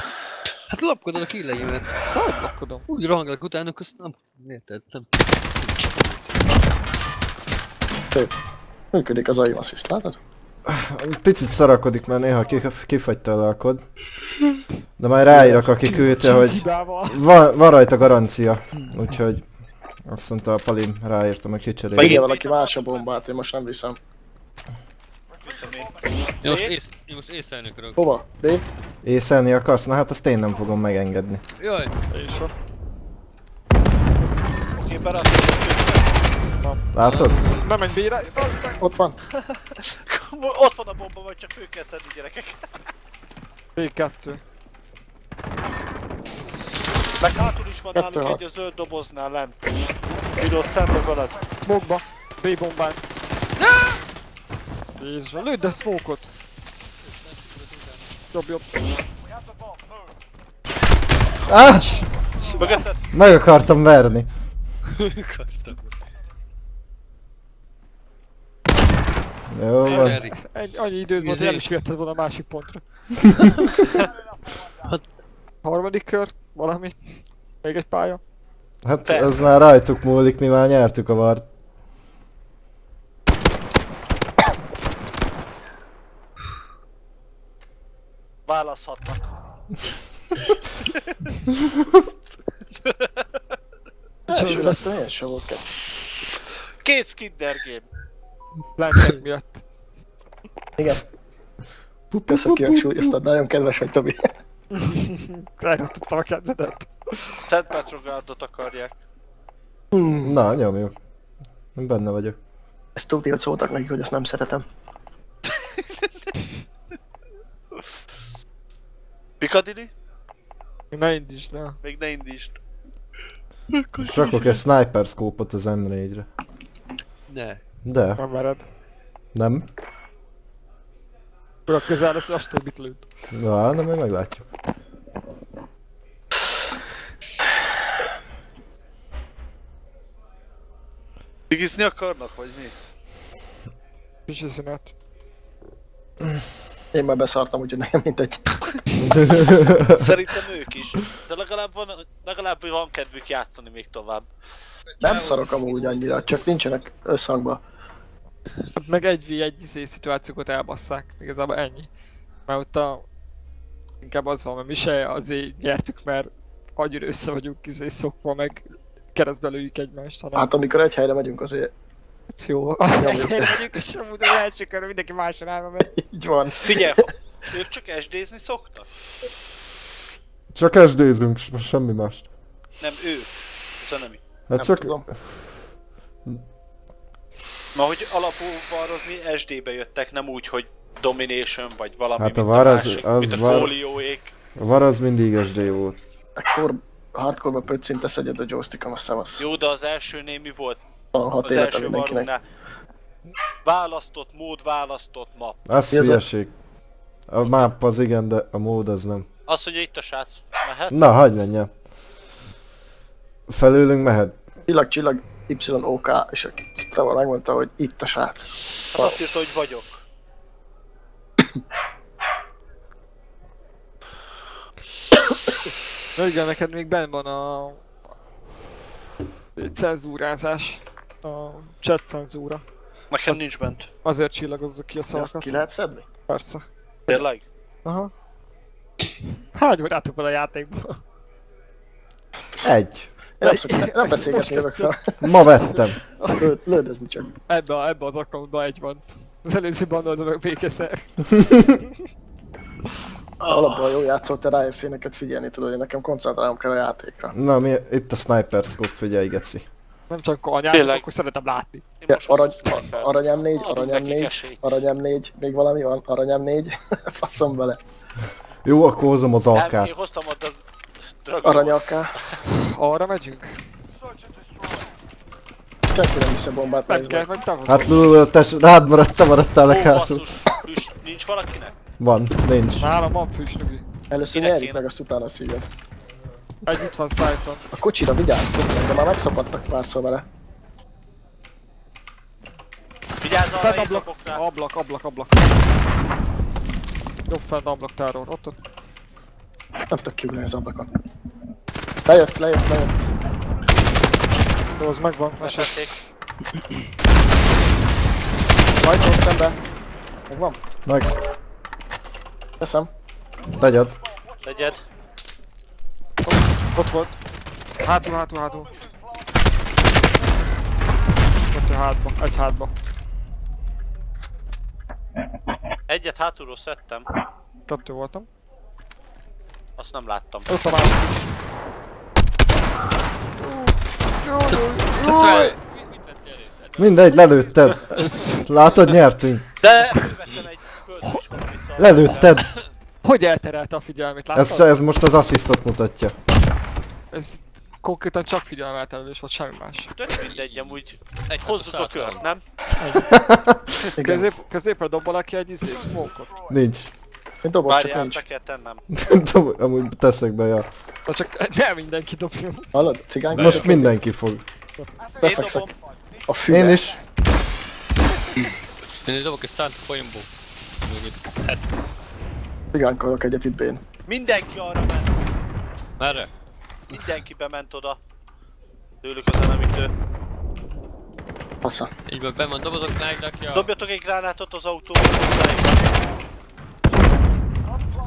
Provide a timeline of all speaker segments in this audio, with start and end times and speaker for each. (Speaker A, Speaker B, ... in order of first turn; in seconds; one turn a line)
Speaker A: 0.7-2.0
Speaker B: 2.1-2.8
Speaker A: 2.9-6.4
Speaker C: 8.9-10.2
Speaker D: 10.6-13.8
Speaker D: 15.0-19.4
Speaker C: 15.3-16.3
Speaker B: 15.9-17.2
Speaker A: 18.7-19.0
Speaker D: 20.1-22.2
Speaker E: 21.9-22.7
Speaker C: 22.0-24.0
Speaker E: 25.4-26.7
Speaker A: 26.4-28.0
Speaker C: 28.0-28.6
Speaker D: 29.0-31.4
Speaker A: 31.6-31.9
Speaker B: 32.1-32.5
Speaker E: 34.7-36.2
Speaker D: 36.9-37.4
Speaker A: 37.0-37.6
Speaker B: 37.6-38.8
Speaker C: 38.8-39.2
Speaker E: 39.4-42.7
Speaker B: 43.8-44.4
Speaker E: 47.2-49.7
Speaker C: 47.9-48.4
Speaker E: 50.3-51.4
Speaker B: 51.6-53.0
Speaker A: 53.6-54.0
Speaker B: 55.0-56.3
Speaker A: 57.2-58.0
Speaker B: 58.3-58.6
Speaker D: 61.5-62.1
Speaker B: 62.3-62.8
Speaker E: 62.6-63.1
Speaker D: 63.1-64.3
Speaker A: 65.0-65.9
Speaker D: 69.5-70.2
Speaker A: 69.8-70.5
Speaker B: 69.9-73.2
Speaker A: 71.2-71.6
Speaker B: 75.6-78.2
Speaker D: 78.8-81.4
Speaker E: 79.1-79.3
Speaker E: 88.5-89.3
Speaker E: 92.8-93.3
Speaker C: 94.3-95.8
Speaker B: 94.3-94.8
Speaker E: 96.8-97.9
Speaker B: 98.8-99.6
Speaker C: 100.8-101.0
Speaker D: 102.1-103.2
Speaker C: 102.3-104.3
Speaker B: 104.7-107.4
Speaker E: 107.5-108.9
Speaker C: 109.9-110.3
Speaker D: 110.2-111.0
Speaker D: 111.7-112.4
Speaker C: 113.0-114.7
Speaker E: 119.4-119.9
Speaker B: 120.9-121.8
Speaker E: 121.8-122.6
Speaker A: 123.7-124.6
Speaker D: 124.0-126.3
Speaker A: 127.3-127.6
Speaker D: 127.8-128.2
Speaker B: 128.2-128.7
Speaker D: 129.3-129.6
Speaker B: 131.7-133.1
Speaker D: 133.3-134.5
Speaker E: 141.5-142.7
Speaker B: 144.3-144.9
Speaker C: 146.9-148.6
Speaker D: 149.0-150.0
Speaker E: 149.9-154.3
Speaker C: 155.0-157.6
Speaker A: 155.0-156.0
Speaker B: 158.7-161.9
Speaker B: 162.5-163.0
Speaker B: 164.0-170.5
Speaker C: 170.3-171.7
Speaker B: 172.3-175.9
Speaker C: 173.0-173.6
Speaker C: 175.9-177.0
Speaker E: 176.6-178.8
Speaker D: 180.5-182.3
Speaker E: 182.8-184.2
Speaker D: 184.5-185.4
Speaker C: 184.6-185.1
Speaker E: 187.7-194.3
Speaker D: 192.2-193.7
Speaker D: 194.5-196.0
Speaker C: 196.4-199.4
Speaker E: 199.4-200.8
Speaker C: 201.1-202.3
Speaker E: 201.4-202.4
Speaker E: 203.6-205.6
Speaker D: 205.7-206.5
Speaker C: 205.9-206.2
Speaker D: 207.3-209.3
Speaker E: 209.5-211.0
Speaker D: 210.9-211.7
Speaker D: 213.5-214.3
Speaker C: 214.7-219.2
Speaker E: 218.9-220.0
Speaker B: 226.2-227.8
Speaker B: 229.6-232.6
Speaker E: 233.1-233.9
Speaker B: 234.0-235.6
Speaker C: 235.1-236.0
Speaker B: 236.3-236.6
Speaker E: 237.1-237.4
Speaker B: 237.8-238.1
Speaker B: 239.5-241.0
Speaker D: 242.6-243.1
Speaker C: 243.4-245.0
Speaker B: 243.4-246.4
Speaker D: 245.2-246.0
Speaker C: 246.3-247.3
Speaker B: 247.5-251.8
Speaker E: 253.4-253.9
Speaker C: 253.4-257.3
Speaker D: 257.3-259.7
Speaker B: 260.1-261.8
Speaker E: 260.7-261.0
Speaker E: 262.0-264.8
Speaker C: 262.1-267.8
Speaker D: 268.6-269.9
Speaker E: 269.5-270.6
Speaker E: 271.2-271.8
Speaker C: 271.4-272.2
Speaker B: 272.5-273.6
Speaker C: 275.9-277.2
Speaker B: 276.9-278.1
Speaker D: 277.6-280.2
Speaker E: 279.7-281.7
Speaker D: 282.0-282.9
Speaker B: 282.8-283.8
Speaker C: 284.1-285.7
Speaker E: 284.3-284.8
Speaker B: 286.6-287.6
Speaker C: 287.7-290.2
Speaker E: 293.2-294.4
Speaker B: 293.6-295.5
Speaker B: 297.3-298.6
Speaker C: 299.9-300.9
Speaker C: 302.1-303.1
Speaker B: 304.8-305.8
Speaker E: 305.4-305.9
Speaker C: 308.8-309.6
Speaker C: 310.3-310.6
Speaker D: 310.9-311.1
Speaker C: 312.6-312.9
Speaker D: 313.6-314.0
Speaker E: 314.4-314.9
Speaker B: 316.7-317.2
Speaker B: 317.8-318.7
Speaker B: 321.5-322.7
Speaker E: 325.9-327.1
Speaker B: 327.7-328.3
Speaker E: 329.8-330.6
Speaker B: 330.5-331.2
Speaker B: 333.4-335.4
Speaker A: 335.0-337.5
Speaker D: 335.0-335.6
Speaker D: 336.8-337.8
Speaker B: 337.9-338.6
Speaker D: 338.3-339.5
Speaker E: 339.6-342.4
Speaker D: 341.8-342.5
Speaker A: 342.3-342.7
Speaker B: 343.0-344.7
Speaker D: 344.3-346.1
Speaker B: 347.1-349.9
Speaker E: 349.9-352.4
Speaker A: 350.3-352.2
Speaker B: 352.8-353.1
Speaker D: 353.1-353.7
Speaker C: 354.0-354.4
Speaker B: 354.0-356.3
Speaker D: 356.5-356.9
Speaker C: 357.4-358.2
Speaker E: 357.6-358.8
Speaker D: 358.9-360.7
Speaker B: 361.1-362.8
Speaker C: 362.7-363.9
Speaker A: 363.3-363.7
Speaker D: 363.3-364.4
Speaker E: 365.2-365.7
Speaker C: 365.2-365.7
Speaker C: 366.3-366.9
Speaker D: 366.5-367.0
Speaker A: 368.9-370.3
Speaker A: 370.8-371.7
Speaker C: 372.7-373.8
Speaker E: 374.1-375.3
Speaker A: 376.0-376.3
Speaker E: 376.9-378.0
Speaker E: 379.0-379.9
Speaker C: 381.6-381.9
Speaker A: 382.1-383.7
Speaker E: 383.5-385.7